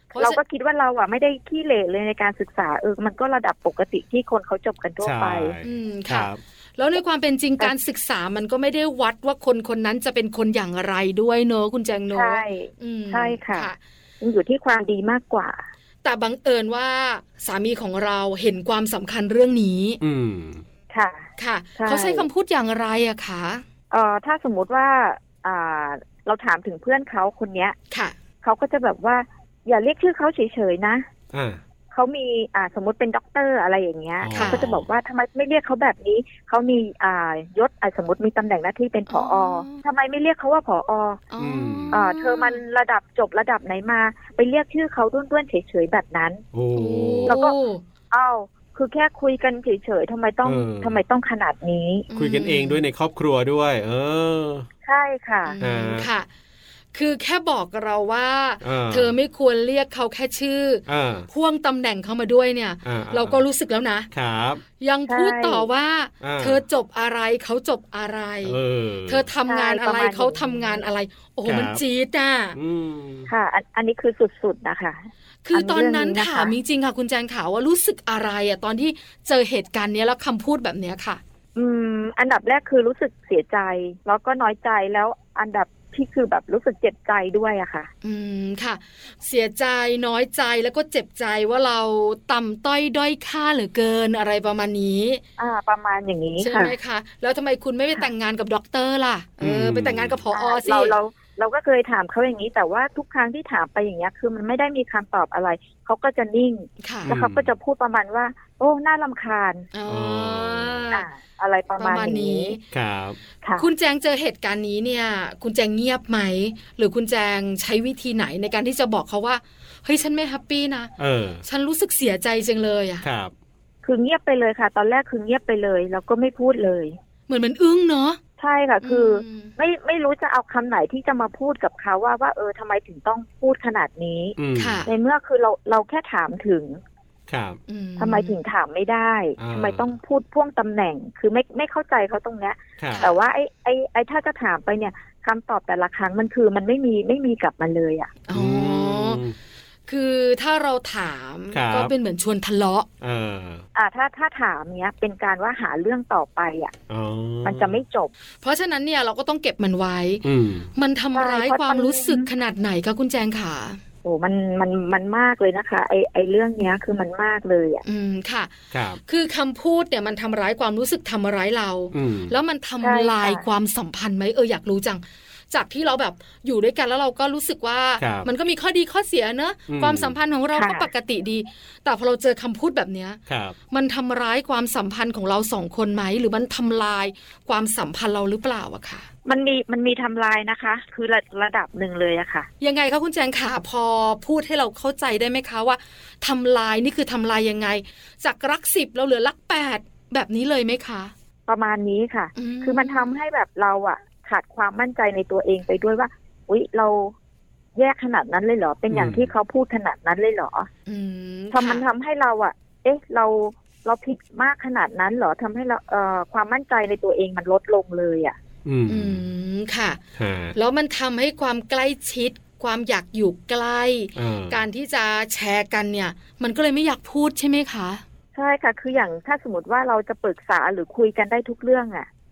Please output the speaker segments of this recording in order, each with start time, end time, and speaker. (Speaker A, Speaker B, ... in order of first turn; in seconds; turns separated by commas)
Speaker A: 0.1-0.4, Speaker B: 0.1-5.5, Speaker C: 5.0-6.4, Speaker A: 5.6-13.8, Speaker B: 12.1-15.6, Speaker A: 16.0-20.0, Speaker C: 20.0-20.6, Speaker B: 20.9-22.3, Speaker A: 21.4-23.6, Speaker B: 23.9-27.7, Speaker B: 28.4-31.1, Speaker C: 31.3-31.6, Speaker B: 31.9-41.2, Speaker C: 34.2-34.9, Speaker A: 34.3-34.6, Speaker A: 39.1-39.8, Speaker A: 41.3-42.6, Speaker C: 41.4-42.0, Speaker B: 41.9-46.4, Speaker C: 46.5-47.4, Speaker A: 46.7-47.8, Speaker B: 47.3-47.5, Speaker B: 48.1-52.1, Speaker C: 50.4-51.0, Speaker A: 52.1-52.8, Speaker C: 52.1-54.7, Speaker B: 54.8-55.6, Speaker A: 55.4-56.3, Speaker C: 55.6-56.1, Speaker A: 56.9-64.1, Speaker C: 58.6-59.1, Speaker C: 60.9-61.3, Speaker C: 62.8-63.4, Speaker C: 64.1-64.6, Speaker A: 64.8-72.6, Speaker B: 65.1-65.7, Speaker C: 66.2-66.6, Speaker C: 68.4-69.3, Speaker B: 69.5-70.8, Speaker C: 71.5-71.8, Speaker C: 72.5-73.3, Speaker B: 73.3-76.5, Speaker A: 75.4-81.2, Speaker B: 81.5-87.9, Speaker A: 88.0-95.2, Speaker B: 95.4-96.7, Speaker A: 96.4-100.9, Speaker C: 99.4-100.2, Speaker B: 100.3-109.7, Speaker A: 106.8-107.1, Speaker C: 107.1-107.5, Speaker A: 109.7-111.0, Speaker C: 109.9-110.8, Speaker B: 110.9-112.5, Speaker A: 111.8-112.6, Speaker C: 112.7-113.2, Speaker B: 113.4-113.7, Speaker A: 113.6-120.9, Speaker C: 121.0-121.4, Speaker A: 121.4-123.0, Speaker C: 123.0-123.3, Speaker B: 123.8-127.0, Speaker A: 127.3-128.2, Speaker B: 128.4-136.8, Speaker A: 128.8-129.5, Speaker C: 134.4-134.8, Speaker A: 134.6-134.9, Speaker C: 137.3-137.6, Speaker A: 137.7-138.4, Speaker B: 138.0-148.2, Speaker C: 139.4-139.9, Speaker C: 142.8-143.1, Speaker A: 142.9-143.2, Speaker A: 148.3-149.2, Speaker C: 148.3-149.3, Speaker A: 149.9-152.9, Speaker C: 151.5-151.9, Speaker C: 153.0-153.6, Speaker B: 153.7-156.7, Speaker C: 156.9-157.8, Speaker B: 157.4-158.1, Speaker A: 158.4-163.8, Speaker C: 160.2-160.7, Speaker B: 161.1-162.3, Speaker B: 164.0-167.8, Speaker A: 167.8-168.5, Speaker C: 168.7-169.0, Speaker A: 169.1-183.2, Speaker C: 171.9-172.3, Speaker B: 172.8-173.4, Speaker C: 178.0-178.3, Speaker C: 179.7-180.2, Speaker B: 180.5-180.9, Speaker C: 183.3-183.6, Speaker A: 183.7-189.1, Speaker B: 189.2-192.5, Speaker A: 192.6-201.1, Speaker B: 201.5-207.1, Speaker A: 202.3-203.1, Speaker B: 207.8-210.7, Speaker C: 208.9-209.3, Speaker A: 210.9-211.8, Speaker B: 211.5-218.3, Speaker C: 218.6-219.2, Speaker A: 218.9-220.0, Speaker C: 220.2-220.5, Speaker A: 220.5-228.0, Speaker C: 224.1-224.6, Speaker B: 228.3-232.1